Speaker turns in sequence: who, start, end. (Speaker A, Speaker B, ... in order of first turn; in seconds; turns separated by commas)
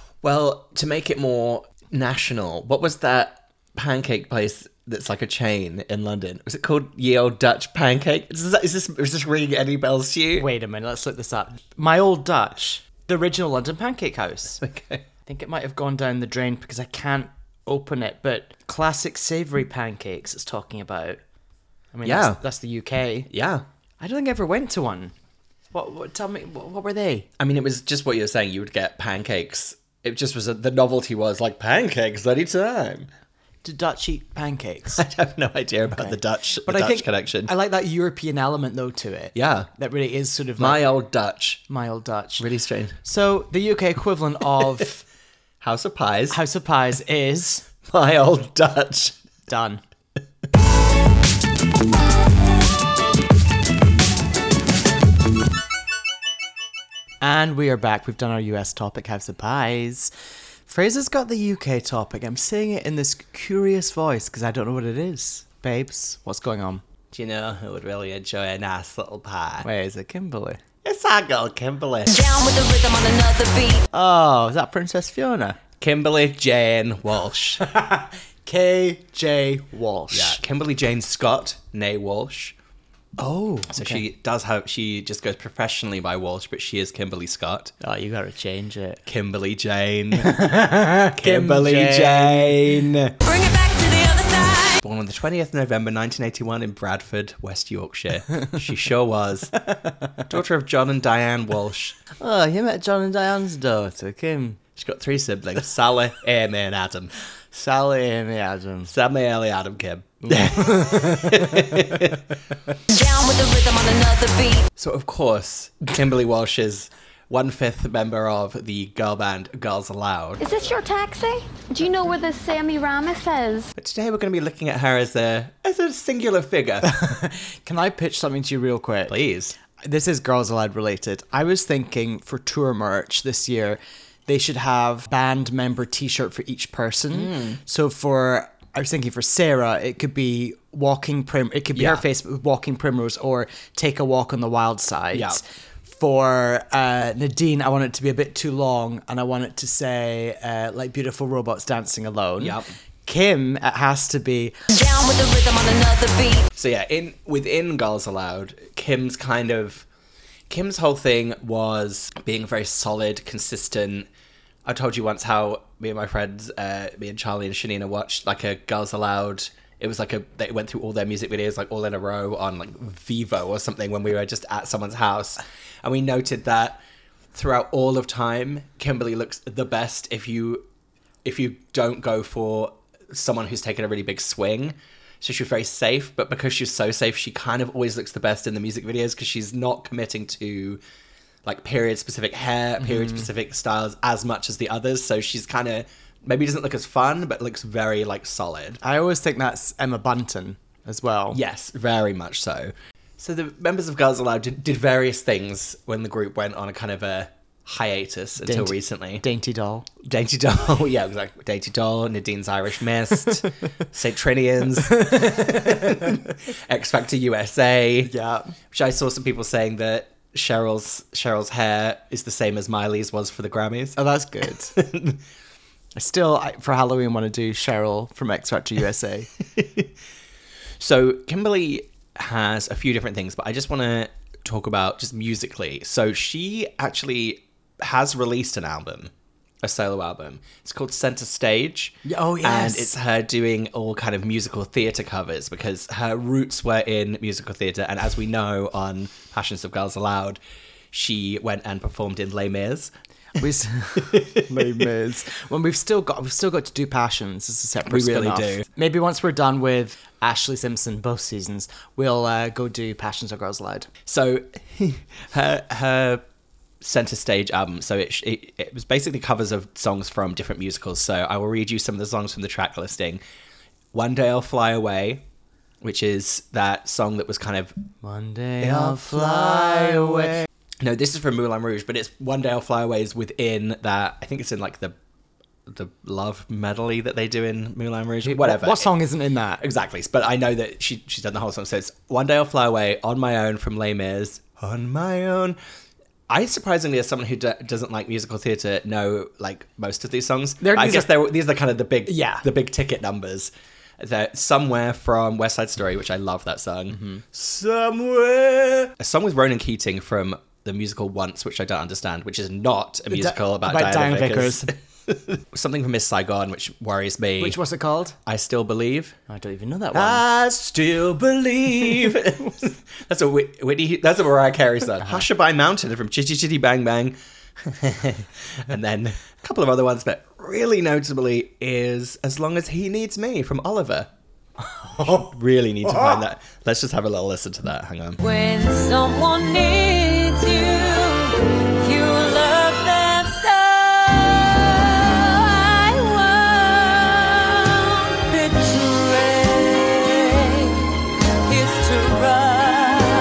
Speaker A: 0.2-10.5, Speaker B: 10.3-14.6, Speaker A: 14.6-15.1, Speaker B: 15.2-21.2, Speaker B: 21.9-23.3, Speaker A: 22.0-22.4, Speaker A: 23.3-23.6, Speaker B: 24.0-25.1, Speaker B: 25.7-27.3, Speaker A: 27.4-33.1, Speaker B: 33.6-35.0, Speaker A: 34.9-37.5, Speaker B: 35.9-40.8, Speaker A: 39.3-39.7, Speaker A: 40.6-41.6, Speaker B: 41.7-42.5, Speaker A: 42.4-43.0, Speaker B: 43.0-45.0, Speaker A: 45.6-46.4, Speaker B: 46.3-47.6, Speaker A: 47.9-49.1, Speaker B: 49.5-49.8, Speaker B: 57.2-60.1, Speaker B: 60.7-66.8, Speaker A: 67.1-69.7, Speaker B: 69.6-70.6, Speaker A: 70.8-72.3, Speaker C: 72.1-73.8, Speaker B: 73.9-75.6, Speaker A: 75.8-77.6, Speaker B: 77.6-80.4, Speaker A: 80.1-82.5, Speaker B: 83.2-84.0, Speaker A: 83.7-87.7, Speaker B: 87.8-89.0, Speaker A: 89.0-90.4, Speaker B: 90.2-92.7, Speaker A: 91.1-93.2, Speaker C: 93.3-94.8, Speaker A: 94.8-99.5, Speaker B: 99.7-100.1, Speaker A: 100.3-102.0, Speaker B: 102.2-104.6, Speaker A: 104.8-107.1, Speaker B: 107.5-108.9, Speaker A: 108.9-112.2, Speaker B: 110.2-111.8, Speaker C: 112.9-114.7, Speaker A: 114.8-120.5, Speaker D: 120.6-122.1, Speaker D: 122.6-123.6, Speaker A: 123.7-126.9, Speaker B: 126.8-129.2, Speaker A: 129.1-129.5, Speaker B: 129.8-154.6, Speaker A: 137.1-137.6, Speaker A: 141.7-142.0, Speaker A: 145.1-145.4, Speaker A: 152.4-152.7, Speaker C: 154.7-156.4, Speaker A: 156.5-159.8, Speaker A: 160.5-164.1, Speaker A: 164.6-176.8, Speaker A: 177.3-180.7, Speaker A: 181.2-190.8, Speaker A: 191.4-198.8, Speaker B: 192.8-193.2, Speaker B: 198.8-201.4, Speaker A: 201.3-209.2, Speaker B: 208.4-209.9, Speaker A: 210.0-218.1, Speaker B: 215.1-215.4, Speaker B: 218.0-218.5, Speaker A: 218.7-224.0, Speaker B: 223.9-224.7, Speaker A: 224.7-225.2, Speaker B: 225.9-229.3, Speaker A: 229.6-229.9, Speaker A: 230.8-250.4, Speaker B: 242.0-242.9, Speaker A: 250.9-252.9, Speaker B: 253.4-263.9, Speaker A: 254.0-254.8, Speaker A: 257.9-258.6, Speaker A: 264.1-266.2, Speaker A: 266.8-273.2, Speaker A: 273.9-275.2, Speaker A: 275.8-277.7, Speaker B: 278.0-280.4, Speaker A: 278.7-279.0, Speaker A: 280.8-284.9, Speaker A: 285.7-288.9, Speaker B: 288.2-289.6, Speaker A: 289.6-295.6, Speaker A: 296.3-317.6, Speaker B: 300.6-301.2, Speaker B: 302.1-302.4, Speaker B: 306.9-307.2, Speaker B: 313.1-314.7, Speaker B: 317.4-318.2, Speaker A: 318.2-319.1, Speaker B: 319.3-320.2, Speaker A: 319.9-334.1, Speaker B: 334.9-335.2, Speaker A: 335.0-338.2, Speaker C: 338.5-341.3, Speaker C: 348.6-349.4